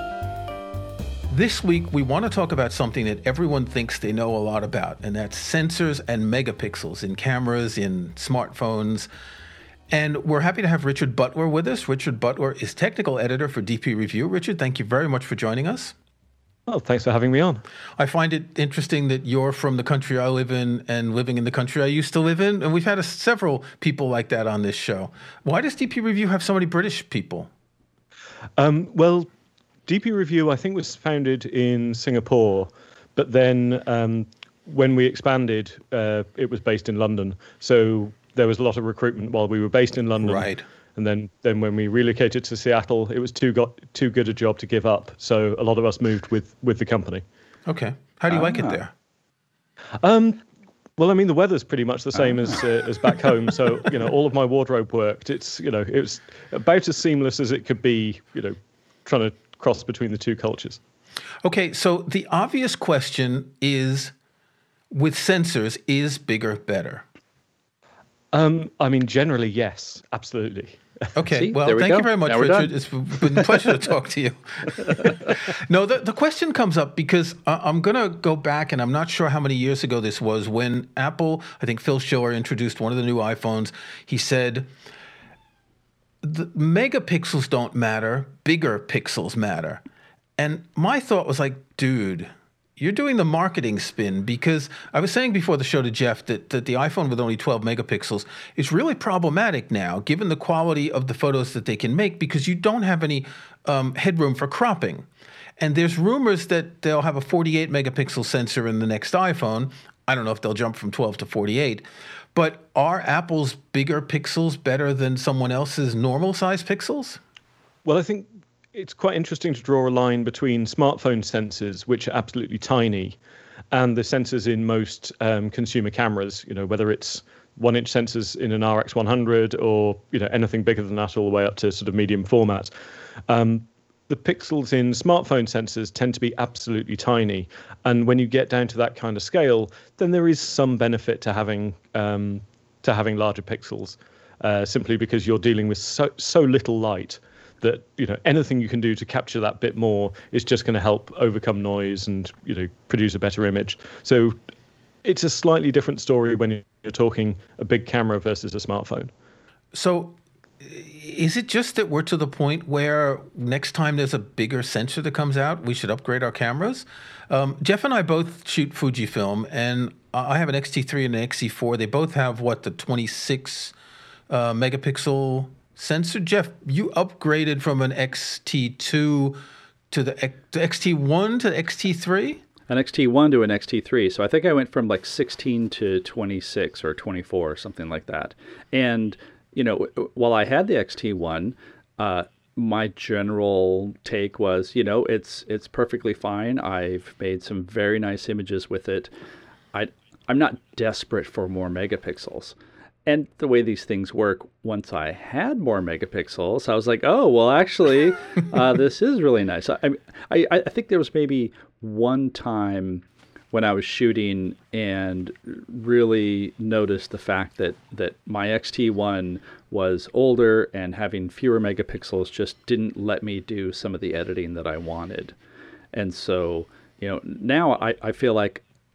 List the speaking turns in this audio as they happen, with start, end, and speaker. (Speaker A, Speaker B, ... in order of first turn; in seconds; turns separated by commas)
Speaker A: 1.3-9.1, Speaker A: 9.9-15.9, Speaker B: 16.7-17.6, Speaker A: 18.0-27.5, Speaker B: 28.6-29.3, Speaker B: 29.9-47.2, Speaker A: 40.2-40.6, Speaker A: 47.6-48.9, Speaker C: 48.3-48.8, Speaker B: 50.0-50.5, Speaker B: 51.0-60.8, Speaker A: 61.4-64.1, Speaker A: 64.9-67.0, Speaker B: 68.3-71.1, Speaker A: 71.1-84.7, Speaker C: 71.3-72.7, Speaker A: 86.2-89.8, Speaker A: 90.4-105.1, Speaker A: 105.6-111.8, Speaker A: 112.3-117.2, Speaker B: 117.8-123.2, Speaker B: 123.7-132.7, Speaker B: 133.3-154.4, Speaker B: 155.0-159.1, Speaker A: 159.7-173.7, Speaker A: 174.3-179.4, Speaker A: 179.9-182.4, Speaker C: 182.7-199.1, Speaker C: 199.7-202.5, Speaker C: 203.1-225.3, Speaker C: 225.9-228.6